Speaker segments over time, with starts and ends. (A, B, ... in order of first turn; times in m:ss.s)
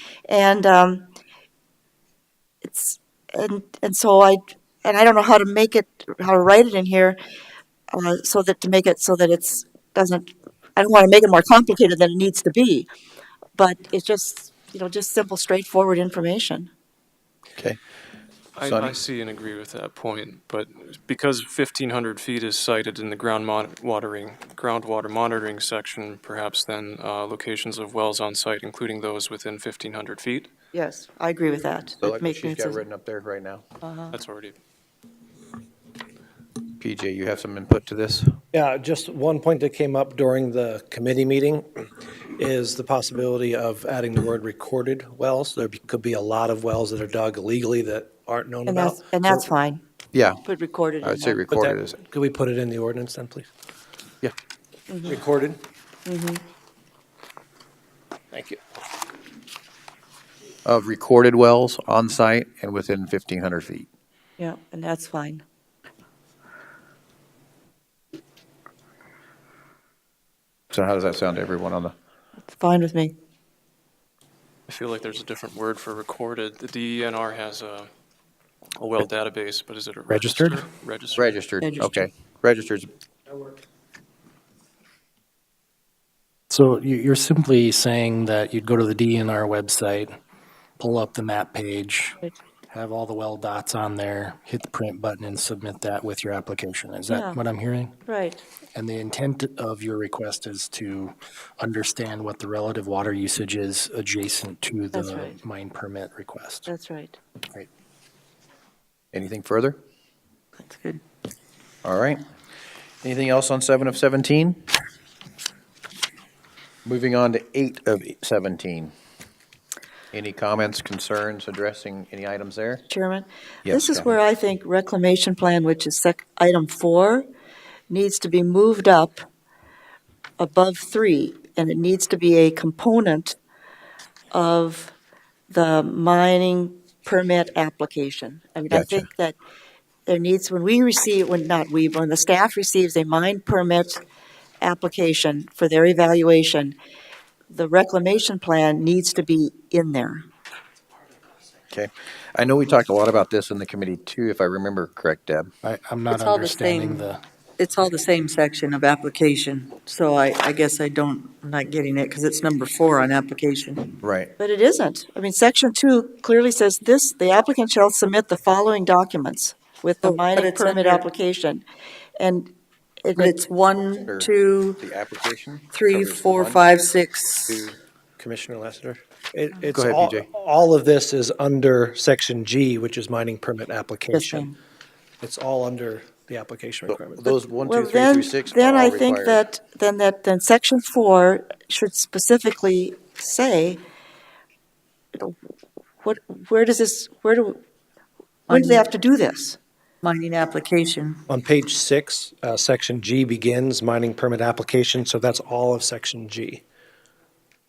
0:00.3-0:01.0 A
0:02.6-0:07.2 A
0:07.9-0:12.9 A
0:13.6-0:16.7 A
0:18.6-0:30.5 B
0:18.6-0:19.0 C
0:30.7-0:32.8 A
0:32.0-0:33.6 C
0:33.8-0:34.1 A
0:34.1-0:34.6 B
0:36.8-0:38.3 C
0:38.5-0:49.5 D
0:48.6-0:49.8 A
0:50.1-0:50.4 C
0:50.4-0:51.4 A
0:51.0-0:52.0 C
0:51.5-0:53.5 D
0:54.9-0:55.2 A
0:55.0-0:55.6 D
0:56.0-0:56.4 A
0:58.3-0:58.6 D
1:00.6-1:03.9 C
1:04.4-1:05.4 A
1:10.7-1:11.9 C
1:12.5-1:13.1 A
1:14.7-1:17.9 B
1:18.8-1:21.3 B
1:20.1-1:20.6 E
1:21.1-1:22.9 C
1:26.5-1:30.1 E
1:30.8-1:32.2 E
1:32.7-1:38.0 E
1:37.1-1:37.4 A
1:38.0-1:38.4 A
1:38.7-1:46.7 E
1:44.9-1:45.4 A
1:46.7-1:47.2 A
1:49.1-1:49.8 C
1:50.6-1:51.0 F
1:51.8-1:52.2 C
1:53.0-1:54.7 C
1:56.8-1:58.9 C
2:00.1-2:02.8 C
2:02.9-2:07.3 A
2:03.6-2:04.2 C
2:07.9-2:09.2 A
2:10.4-2:13.4 A
2:14.3-2:14.9 A
2:15.5-2:19.4 A
2:18.7-2:19.0 C
2:20.1-2:24.0 A
2:24.6-2:26.7 A
2:27.5-2:30.2 A
2:31.7-2:35.5 C
2:35.6-2:37.2 E
2:36.1-2:44.0 F
2:44.0-2:44.3 C
2:44.4-2:51.6 A
2:50.0-2:51.0 F
2:52.2-2:52.5 A
2:53.0-2:53.4 A
2:53.2-2:54.8 F
2:54.0-2:56.7 C
2:55.7-2:57.7 F
2:57.4-2:57.8 C
2:58.2-3:04.5 D
2:59.7-3:00.3 C
3:04.1-3:04.5 A
3:05.2-3:07.3 D
3:06.9-3:09.4 C
3:07.6-3:13.8 A
3:16.0-3:17.6 A
3:18.5-3:19.6 A
3:18.5-3:18.8 F
3:20.0-3:21.2 F
3:21.3-3:26.6 D